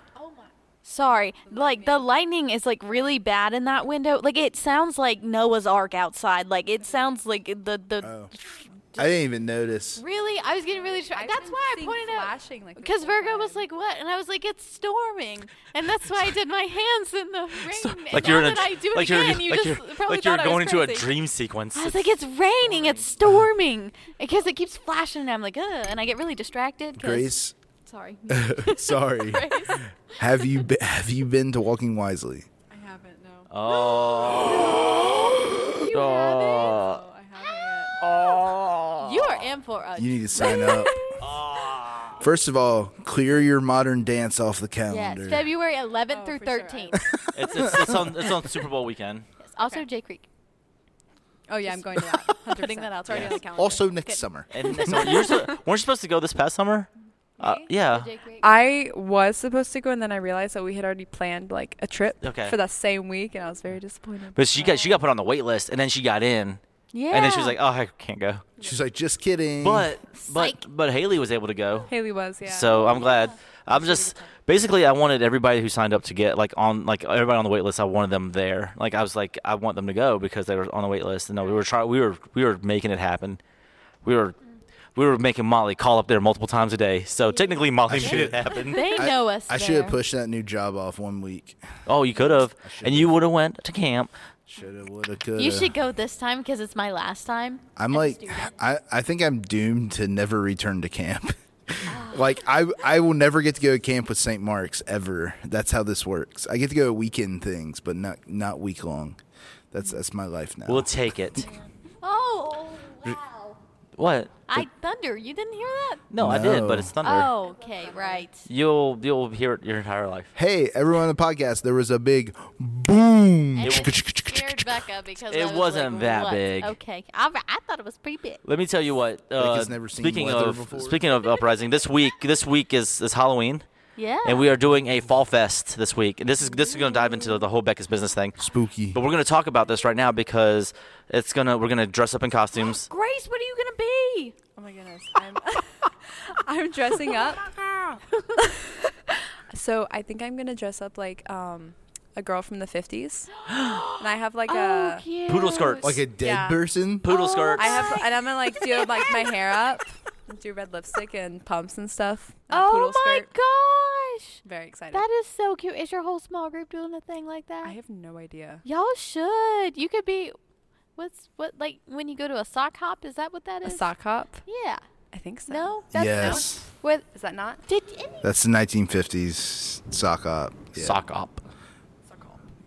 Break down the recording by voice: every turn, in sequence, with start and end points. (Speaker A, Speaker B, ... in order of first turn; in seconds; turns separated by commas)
Speaker A: 0.2-9.2, Speaker B: 1.5-2.0, Speaker C: 8.0-8.3, Speaker C: 9.0-10.0, Speaker A: 9.9-21.1, Speaker B: 11.1-13.6, Speaker D: 17.7-22.1, Speaker A: 21.7-27.3, Speaker D: 22.7-23.0, Speaker C: 27.0-27.5, Speaker A: 27.9-29.8, Speaker C: 28.3-32.5, Speaker B: 32.7-38.0, Speaker D: 33.5-37.0, Speaker A: 33.6-36.8, Speaker D: 38.0-39.4, Speaker A: 39.0-41.2, Speaker C: 40.0-40.9, Speaker B: 40.4-41.1, Speaker D: 41.2-42.2, Speaker C: 42.2-45.5, Speaker A: 44.9-47.1, Speaker B: 46.1-47.2, Speaker D: 47.3-49.2, Speaker C: 47.7-48.0, Speaker A: 49.4-50.2, Speaker B: 51.5-54.0, Speaker A: 51.6-55.4, Speaker D: 53.1-53.4, Speaker C: 53.5-54.5, Speaker D: 54.5-58.1, Speaker B: 57.4-57.7, Speaker A: 57.6-58.5, Speaker B: 58.4-65.0, Speaker D: 62.2-62.6, Speaker D: 64.3-66.6, Speaker A: 66.9-67.5, Speaker D: 67.1-68.5, Speaker C: 68.6-69.9, Speaker D: 69.6-83.4, Speaker A: 70.2-70.6, Speaker B: 71.9-74.1, Speaker A: 72.9-73.3, Speaker A: 73.9-74.2, Speaker D: 84.0-84.4, Speaker D: 85.0-88.8, Speaker C: 87.9-91.8, Speaker A: 87.9-90.0, Speaker D: 91.8-94.1, Speaker C: 92.6-93.2, Speaker C: 94.5-95.7, Speaker A: 95.3-98.5, Speaker C: 97.8-109.2, Speaker A: 101.8-102.4, Speaker C: 109.7-111.4, Speaker D: 110.7-111.4, Speaker A: 112.0-113.6, Speaker D: 114.0-114.7, Speaker A: 114.5-116.0, Speaker D: 116.1-117.3, Speaker C: 116.2-117.0, Speaker A: 117.0-118.5, Speaker B: 117.3-118.3, Speaker D: 118.4-120.3, Speaker C: 120.3-124.7, Speaker A: 123.5-128.4, Speaker D: 123.6-123.9, Speaker D: 125.3-126.7, Speaker D: 128.4-133.6, Speaker C: 129.4-131.0, Speaker A: 134.0-134.5, Speaker D: 134.2-138.4, Speaker A: 136.9-137.4, Speaker C: 138.4-139.0, Speaker D: 138.9-142.9, Speaker A: 142.6-144.3, Speaker B: 144.6-147.6, Speaker A: 147.4-148.4, Speaker B: 148.4-148.9, Speaker B: 149.5-155.0, Speaker A: 153.4-156.0, Speaker D: 155.3-155.9, Speaker C: 155.8-157.1, Speaker B: 156.2-156.6, Speaker D: 157.0-158.0, Speaker A: 157.0-159.3, Speaker B: 157.6-163.3, Speaker A: 162.5-167.8, Speaker B: 164.4-165.0, Speaker B: 167.6-168.6, Speaker A: 168.6-170.4, Speaker A: 170.9-173.9, Speaker B: 173.6-174.4, Speaker A: 174.4-174.8, Speaker B: 175.1-176.5, Speaker A: 175.5-177.0, Speaker C: 175.9-176.6, Speaker B: 177.0-177.6, Speaker A: 177.7-178.2, Speaker C: 178.2-181.0, Speaker D: 180.8-181.4, Speaker B: 182.1-182.4